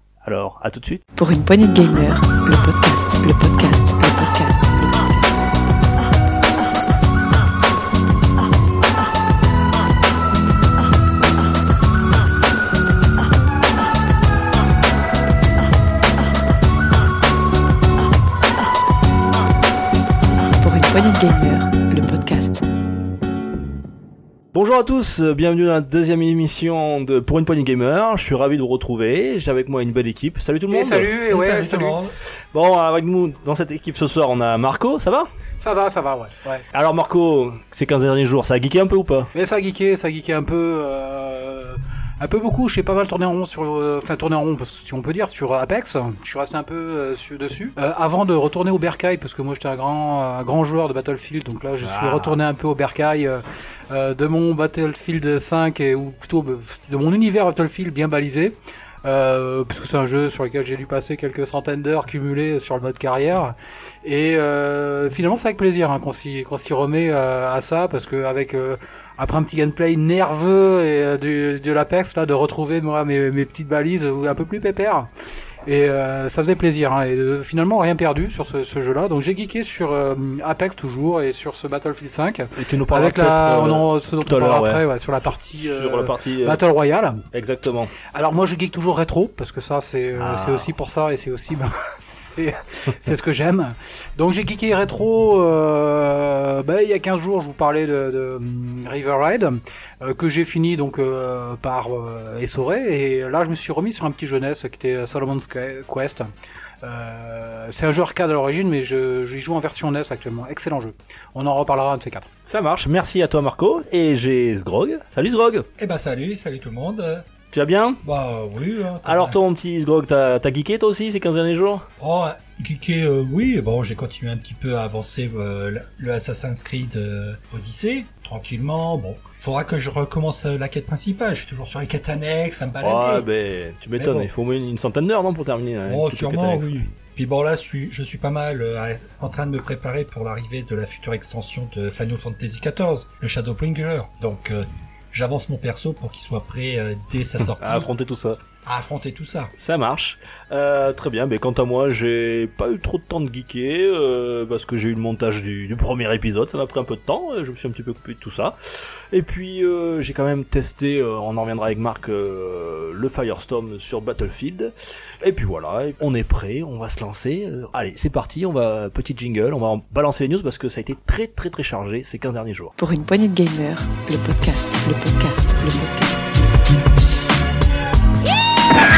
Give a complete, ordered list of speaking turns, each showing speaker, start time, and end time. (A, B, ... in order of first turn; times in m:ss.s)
0:00.2-0:01.0 A
0:01.2-0:05.1 B
0:20.4-0:22.6 B
0:24.5-0:31.1 A
0:30.7-0:32.0 C
0:31.3-0:32.2 D
0:32.5-0:35.3 A
0:35.6-0:36.6 C
0:36.7-0:39.3 A
0:39.3-1:15.1 C
0:51.8-0:52.4 A
1:15.6-1:27.2 C
1:22.5-1:26.6 A
1:27.3-1:27.9 A
1:28.0-1:46.3 C
1:30.2-1:30.7 A
1:46.8-1:52.3 C
1:52.5-1:55.7 A
1:55.8-1:57.2 D
1:57.5-1:58.0 A
1:58.0-1:59.4 D
1:59.0-2:01.8 A
2:02.0-2:13.3 D
2:12.8-2:16.8 A
2:14.0-2:14.3 D
2:15.8-2:27.9 D
2:27.6-2:28.4 A
2:28.6-2:29.5 D
2:29.6-2:52.7 A
2:52.8-2:56.5 B